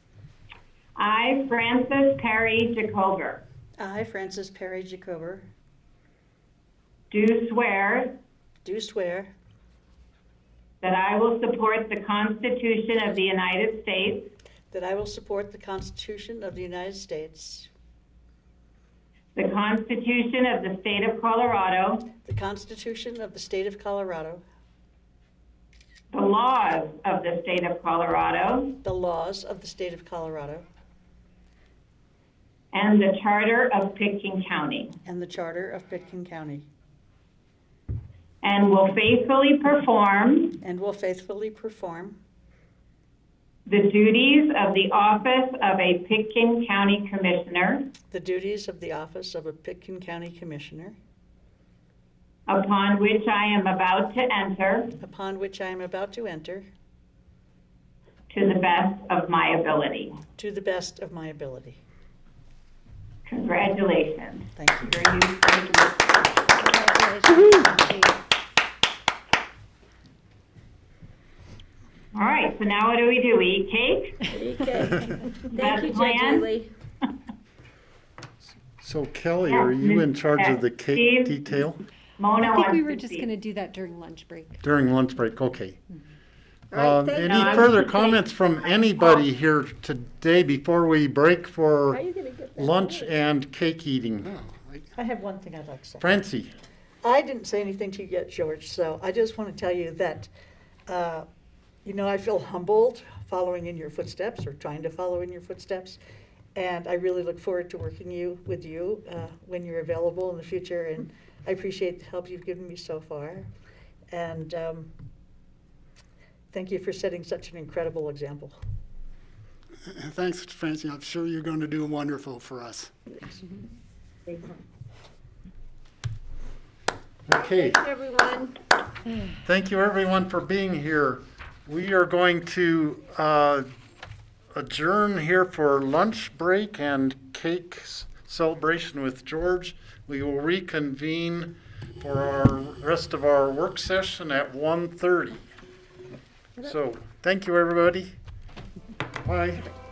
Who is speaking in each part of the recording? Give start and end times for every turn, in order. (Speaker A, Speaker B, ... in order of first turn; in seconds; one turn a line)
Speaker A: 1.0-3.4
Speaker B: 3.8-5.5
Speaker A: 7.1-8.1
Speaker B: 8.6-9.3
Speaker A: 10.8-14.3
Speaker B: 14.7-17.7
Speaker A: 19.4-22.0
Speaker B: 22.2-24.4
Speaker A: 26.1-28.8
Speaker B: 28.8-30.7
Speaker A: 32.7-35.0
Speaker B: 35.0-36.7
Speaker A: 38.4-40.6
Speaker B: 40.6-42.2
Speaker A: 43.7-47.9
Speaker B: 48.1-51.0
Speaker A: 52.5-55.0
Speaker B: 55.0-56.7
Speaker A: 58.3-60.2
Speaker B: 60.4-61.8
Speaker A: 63.3-66.6
Speaker B: 64.6-65.1
Speaker C: 66.6-68.0
Speaker A: 72.1-74.3
Speaker C: 74.3-76.7
Speaker A: 75.5-76.5
Speaker D: 78.8-81.8
Speaker A: 79.5-81.4
Speaker A: 82.2-83.3
Speaker E: 82.4-84.6
Speaker D: 84.6-85.8
Speaker D: 86.7-92.0
Speaker C: 86.7-88.2
Speaker A: 87.3-88.0
Speaker C: 91.9-93.1
Speaker D: 92.5-94.3
Speaker B: 95.0-96.1
Speaker D: 96.0-96.5
Speaker B: 97.0-100.3
Speaker B: 100.9-101.3
Speaker B: 101.8-106.0
Speaker B: 106.5-113.5
Speaker B: 114.1-115.0
Speaker B: 116.5-118.6
Speaker F: 119.9-122.9
Speaker D: 127.3-127.8
Speaker C: 127.3-128.6
Speaker D: 129.4-133.7
Speaker D: 134.5-145.4
Speaker D: 146.6-148.1
Speaker D: 149.2-149.7